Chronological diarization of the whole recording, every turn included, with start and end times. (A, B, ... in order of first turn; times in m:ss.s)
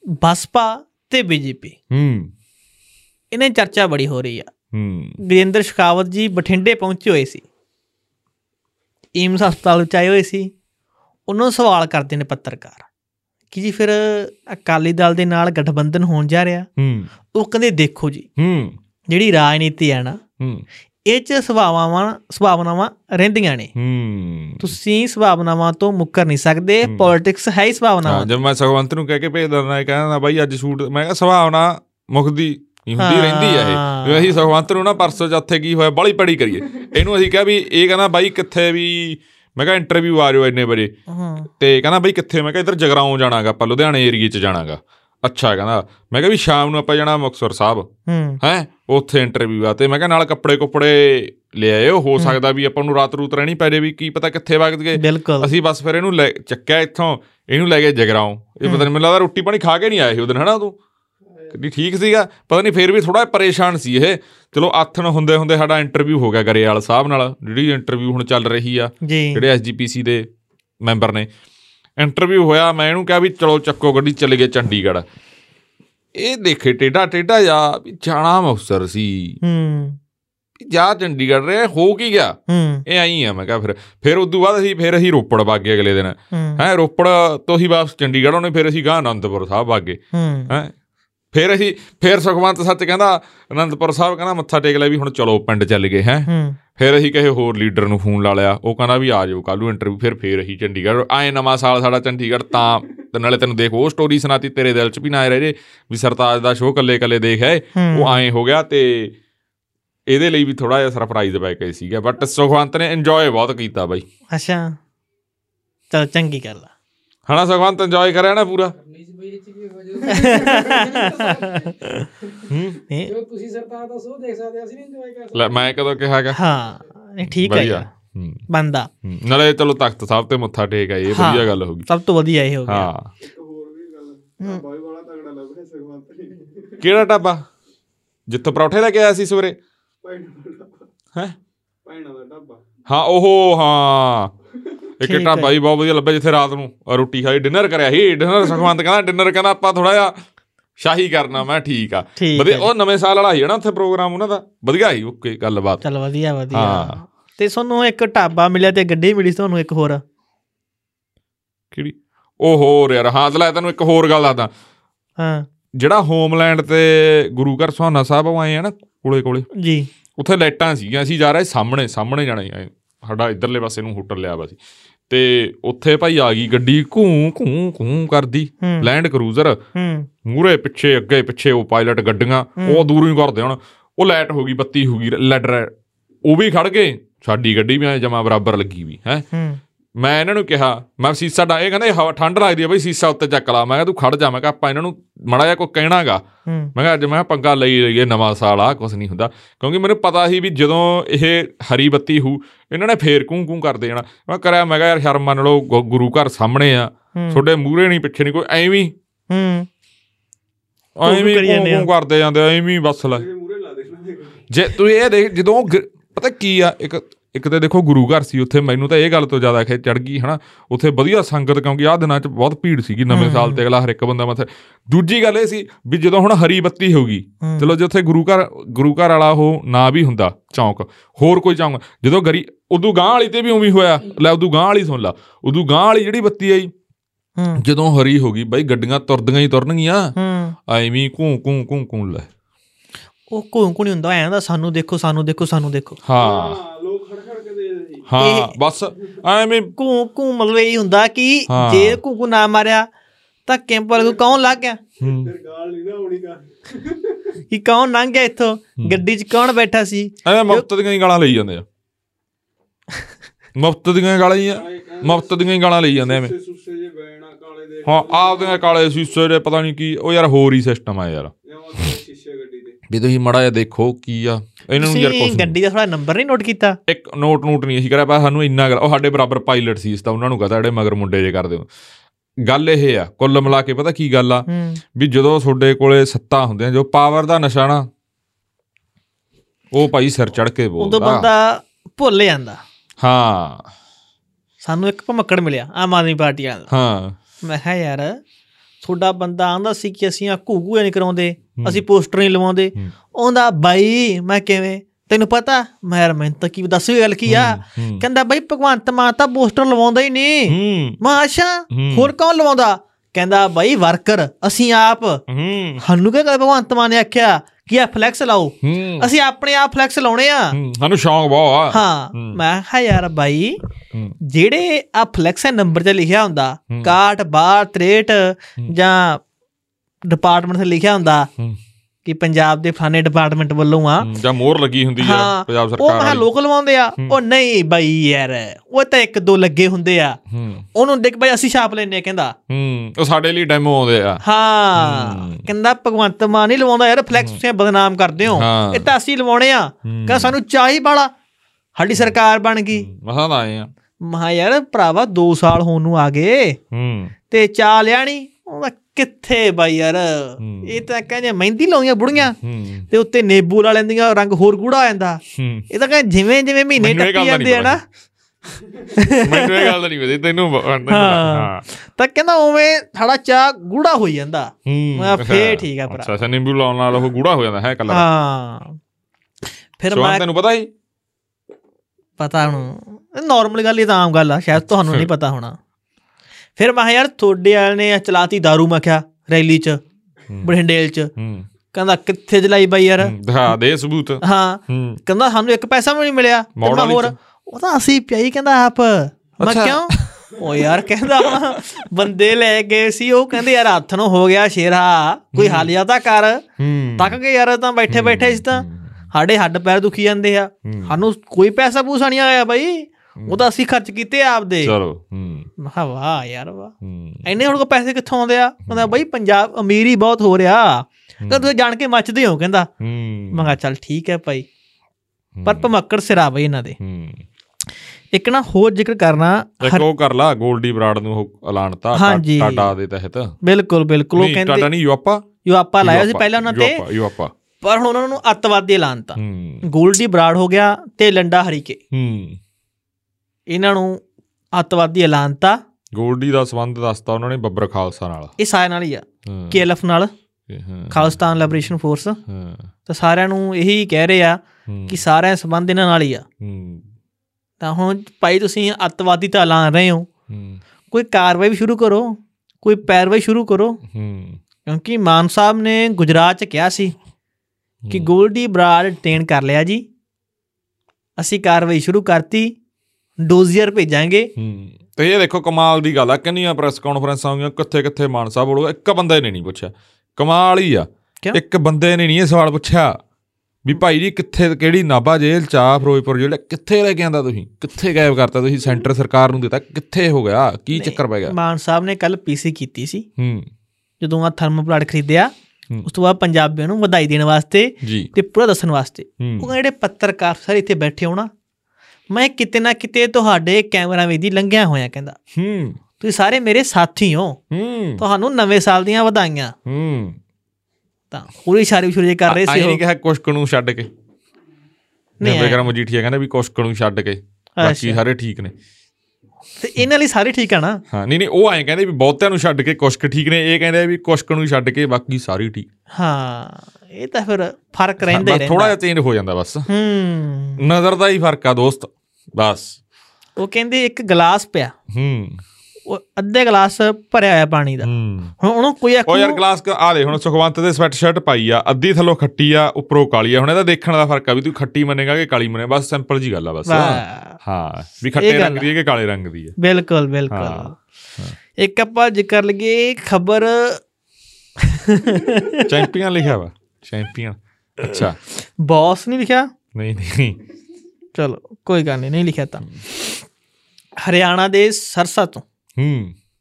0:00.2-0:01.8 A
0:01.9-0:02.3 B
0:03.3-0:04.5 A
0:04.7-0:05.2 B
0:05.2-0:07.4 A
0:09.2-0:10.5 A
0:11.3-0:12.8 A
0:13.5-0:16.7 A
0:16.8-0:17.1 B
0:17.3-0:18.3 A
0:18.4-0:18.8 B
0:19.1-0:20.2 A
0:21.0-0:23.7 A
0:23.7-0:24.8 B
0:24.6-0:28.3 A
0:26.8-0:27.1 B
0:28.0-0:40.9 B
0:33.0-0:34.4 A
0:41.1-0:41.5 A
0:41.6-0:47.9 B
0:48.1-0:48.4 A
0:48.4-1:00.8 B
0:54.9-0:55.5 A
1:01.5-1:10.2 B
1:09.0-1:09.4 A
1:10.8-1:11.3 B
1:12.0-1:15.0 B
1:16.1-1:19.4 B
1:19.4-1:20.0 A
1:20.6-1:30.7 B
1:22.5-1:22.8 A
1:26.3-1:26.6 A
1:30.1-1:30.5 A
1:31.3-1:49.1 B
1:36.3-1:36.6 A
1:47.7-1:48.2 A
1:50.1-1:54.0 B
1:54.3-1:54.8 A
1:55.9-1:56.7 A
1:57.3-1:58.7 B
1:58.8-2:02.4 C
2:00.0-2:02.1 A
2:02.5-2:02.8 B
2:03.0-2:05.9 C
2:05.3-2:06.4 B
2:06.3-2:07.9 A
2:07.2-2:08.4 B
2:08.5-2:08.9 A
2:09.0-2:11.9 B
2:11.1-2:12.9 A
2:12.7-2:13.1 B
2:13.2-2:16.9 D
2:16.8-2:17.4 B
2:18.3-2:19.6 B
2:20.0-2:20.9 D
2:21.8-2:22.6 D
2:22.9-2:24.3 B
2:25.0-2:30.1 B
2:25.0-2:25.5 A
2:30.8-2:35.8 B
2:32.2-2:32.7 A
2:35.8-2:40.0 A
2:36.5-2:37.0 B
2:41.7-2:44.5 B
2:45.2-2:45.4 A
2:45.8-2:49.5 B
2:49.5-2:49.9 A
2:50.2-2:59.6 B
2:58.6-2:58.9 A
2:59.7-3:00.1 A
3:00.2-3:05.7 B
3:02.6-3:02.9 A
3:06.2-3:09.2 B
3:09.3-3:09.6 A
3:10.0-3:16.2 B
3:16.4-3:16.7 A
3:16.8-3:28.9 B
3:27.2-3:27.4 A
3:29.3-3:29.7 A
3:31.0-3:33.2 B
3:31.0-3:31.9 A
3:33.1-3:34.4 D
3:34.5-3:56.7 B
3:43.1-3:43.6 A
3:47.4-3:47.7 A
3:57.4-3:57.6 A
3:57.6-4:00.1 B
4:00.2-4:00.6 A
4:00.7-4:02.3 B
4:03.3-4:06.0 A
4:06.0-4:06.6 B
4:06.2-4:08.1 D
4:08.1-4:09.7 B
4:08.2-4:08.5 A
4:09.8-4:12.9 A
4:11.5-4:12.0 B
4:13.4-4:14.8 A
4:14.0-4:14.4 D
4:15.0-4:15.3 B
4:15.0-4:17.4 D
4:17.5-4:20.6 A
4:20.2-4:21.6 B
4:23.5-4:26.3 B
4:24.5-4:25.4 D
4:26.0-4:28.7 D
4:27.8-4:31.9 B
4:31.4-4:32.8 D
4:32.9-4:35.5 B
4:34.8-4:36.8 A
4:36.9-4:41.7 B
4:42.4-4:47.9 B
4:44.5-4:44.8 A
4:49.7-4:51.3 B
4:50.8-4:52.6 A
4:53.0-4:53.7 B
4:54.6-4:56.7 A
4:56.7-4:57.2 B
4:57.4-4:58.2 A
4:58.8-5:15.2 A
5:01.6-5:01.8 B
5:07.2-5:08.0 B
5:10.5-5:11.0 B
5:11.7-5:12.1 B
5:15.3-5:15.8 B
5:15.8-5:20.6 A
5:18.6-5:19.1 B
5:20.5-5:22.4 B
5:21.7-5:23.6 A
5:24.2-5:29.2 A
5:26.7-5:27.0 B
5:30.0-5:31.3 A
5:32.0-5:34.1 A
5:34.0-5:36.2 B
5:35.0-5:40.2 A
5:40.3-5:40.6 B
5:40.7-5:42.3 A
5:42.5-5:44.2 B
5:44.2-5:51.1 A
5:44.8-5:45.5 B
5:47.1-5:47.4 B
5:48.3-5:48.9 B
5:49.8-5:50.4 B
5:51.8-5:52.9 A
5:52.7-5:53.7 B
5:54.0-5:56.6 A
5:56.7-5:57.1 B
5:57.3-6:02.4 A
6:00.4-6:00.9 B
6:02.3-6:02.9 B
6:02.9-6:07.8 A
6:05.3-6:05.6 B
6:06.8-6:07.8 B
6:08.9-6:09.8 A
6:09.2-6:11.6 B
6:10.9-6:16.1 A
6:14.6-6:18.0 B
6:17.9-6:18.8 A
6:19.8-6:20.2 A
6:19.9-6:20.7 B
6:22.2-6:25.6 A
6:24.7-6:25.1 B
6:26.6-6:29.8 A
6:30.3-6:30.5 B
6:30.4-6:31.1 A
6:31.2-6:31.5 B
6:31.7-6:33.1 A
6:33.0-6:35.0 B
6:34.2-6:46.4 A
6:36.6-6:37.1 B
6:39.4-6:40.3 B
6:41.1-6:41.6 B
6:45.3-6:45.7 B
6:46.6-6:47.2 B
6:47.0-6:54.7 A
6:47.9-6:48.9 B
6:50.6-6:51.0 B
6:53.2-6:53.4 B
6:54.6-6:55.5 B
6:55.6-6:56.7 A
6:56.8-6:57.3 B
6:57.2-7:02.7 A
6:58.7-6:58.9 B
7:01.2-7:01.5 B
7:02.8-7:03.6 B
7:03.3-7:04.5 A
7:05.3-7:05.7 B
7:05.4-7:06.8 A
7:06.8-7:07.2 B
7:08.1-7:09.8 A
7:09.6-7:13.4 B
7:11.9-7:12.7 A
7:13.4-7:14.7 A
7:14.1-7:15.2 B
7:15.4-7:16.8 A
7:15.8-7:17.3 B
7:17.6-7:21.8 A
7:19.2-7:19.6 B
7:21.9-7:22.4 B
7:23.5-7:24.0 A
7:24.5-7:25.6 A
7:25.9-7:28.3 B
7:28.4-7:30.1 A
7:29.2-7:29.6 B
7:30.5-7:31.7 B
7:30.9-7:32.2 A
7:32.2-7:32.7 B
7:32.9-7:36.2 A
7:34.7-7:35.0 B
7:36.4-7:36.9 B
7:37.6-7:40.1 A
7:40.3-7:40.6 B
7:40.9-7:43.8 A
7:43.8-7:44.4 B
7:44.6-7:46.9 A
7:47.8-7:48.1 B
7:47.9-7:49.8 A
7:51.2-7:52.5 A
7:53.2-7:54.3 A
7:54.4-8:03.0 B
8:03.6-8:11.3 B
8:10.7-8:13.0 A
8:13.2-8:13.5 B
8:14.0-8:15.3 A
8:15.8-8:21.3 A
8:17.8-8:18.1 B
8:19.2-8:19.5 B
8:22.1-8:25.2 A
8:25.3-8:25.8 B
8:26.0-8:27.4 A
8:27.5-8:28.0 B
8:28.0-8:29.5 A
8:29.6-8:30.2 B
8:31.1-8:32.8 A
8:32.3-8:33.9 B
8:35.2-8:35.6 A
8:35.2-8:38.5 B
8:37.6-8:38.0 A
8:39.6-8:40.8 A
8:40.9-8:45.6 B
8:45.9-8:48.7 A
8:48.0-8:49.7 B
8:49.7-8:50.6 A
8:50.6-8:52.8 B
8:53.4-8:54.7 A
8:54.9-8:55.4 B
8:55.9-8:59.4 A
8:57.8-8:58.3 B
8:59.0-9:09.6 B
9:06.7-9:07.4 A
9:08.2-9:08.7 A
9:09.6-9:10.7 A
9:10.3-9:11.4 B
9:11.6-9:13.8 A
9:14.6-9:15.7 A
9:15.6-9:18.2 B
9:17.9-9:19.5 A
9:19.7-9:20.4 B
9:21.1-9:23.2 A
9:24.0-9:25.4 A
9:25.8-9:26.1 B